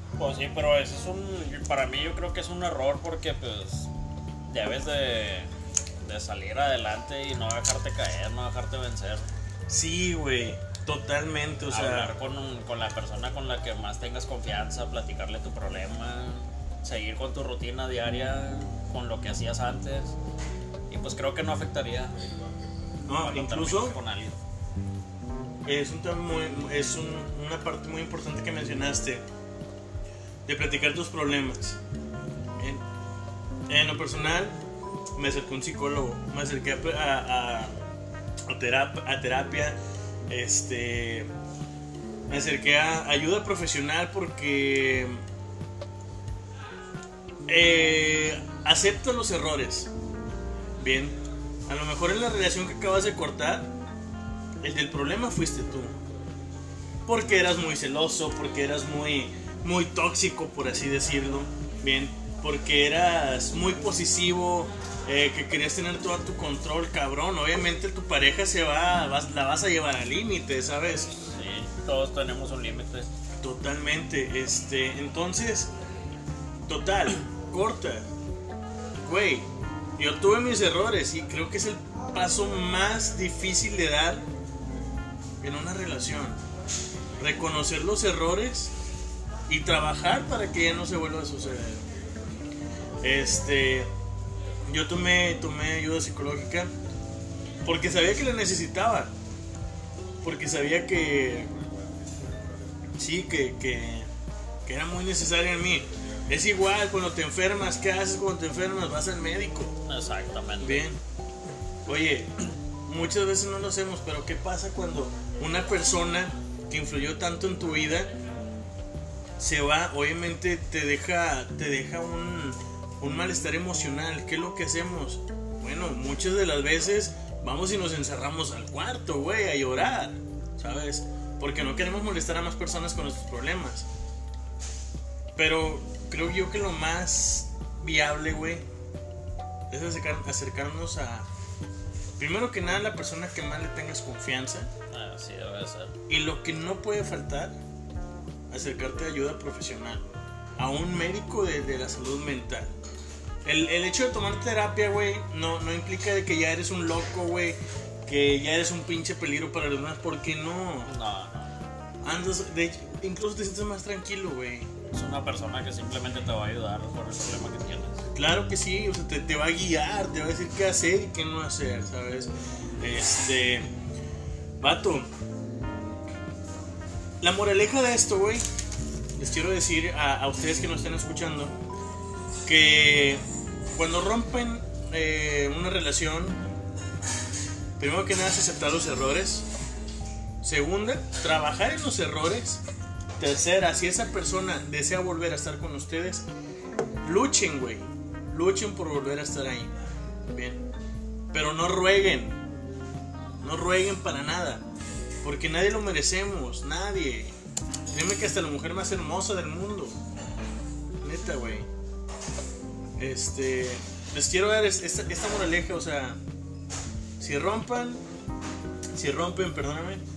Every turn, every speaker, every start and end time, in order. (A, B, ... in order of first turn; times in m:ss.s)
0:00.2-0:03.9 A
0:04.5-0:05.5 A
0:06.0-0:09.2 A
0:09.7-0:12.1 B
0:11.7-0:20.2 A
0:20.9-0:22.1 A
0:23.1-0:24.0 B
0:23.2-0:24.4 A
0:25.6-0:29.2 B
0:30.4-0:31.8 B
0:33.7-0:34.6 B
0:35.2-0:37.7 B
0:38.5-0:39.8 B
0:40.3-0:41.3 B
0:42.3-0:45.2 B
0:47.5-0:49.9 B
0:50.8-0:53.7 B
0:54.6-0:55.9 B
0:57.0-1:11.1 B
1:11.2-1:13.1 A
1:13.4-1:15.7 B
1:16.7-1:18.1 B
1:19.0-1:24.2 B
1:25.4-1:26.4 B
1:27.2-1:28.7 B
1:29.5-1:31.8 B
1:33.0-1:33.9 B
1:34.7-1:36.7 B
1:37.6-1:39.1 B
1:40.2-1:41.5 B
1:43.0-1:44.1 B
1:44.6-1:49.8 B
1:49.9-1:50.9 A
1:50.6-1:51.0 B
1:51.8-1:58.1 B
1:59.4-2:13.9 B
2:15.4-2:18.6 B
2:19.7-2:21.3 B
2:22.2-2:24.7 B
2:24.9-2:25.9 A
2:26.1-2:27.5 B
2:28.5-2:30.0 B
2:30.6-2:32.7 B
2:33.4-2:40.9 B
2:40.8-2:41.6 A
2:42.0-2:44.7 B
2:44.9-2:48.0 A
2:48.1-2:53.7 B
2:54.6-2:55.1 B
2:57.2-2:58.4 B
2:59.2-3:01.6 B
3:02.4-3:03.2 B
3:03.7-3:06.4 B
3:07.8-3:09.4 B
3:10.4-3:12.6 B
3:13.2-3:16.2 B
3:17.0-3:19.7 B
3:20.3-3:20.6 B
3:21.3-3:22.4 B
3:23.4-3:24.6 B
3:25.2-3:27.3 B
3:27.9-3:29.9 B
3:31.0-3:31.7 B
3:33.0-3:36.2 B
3:37.2-3:38.0 B
3:38.9-3:40.0 B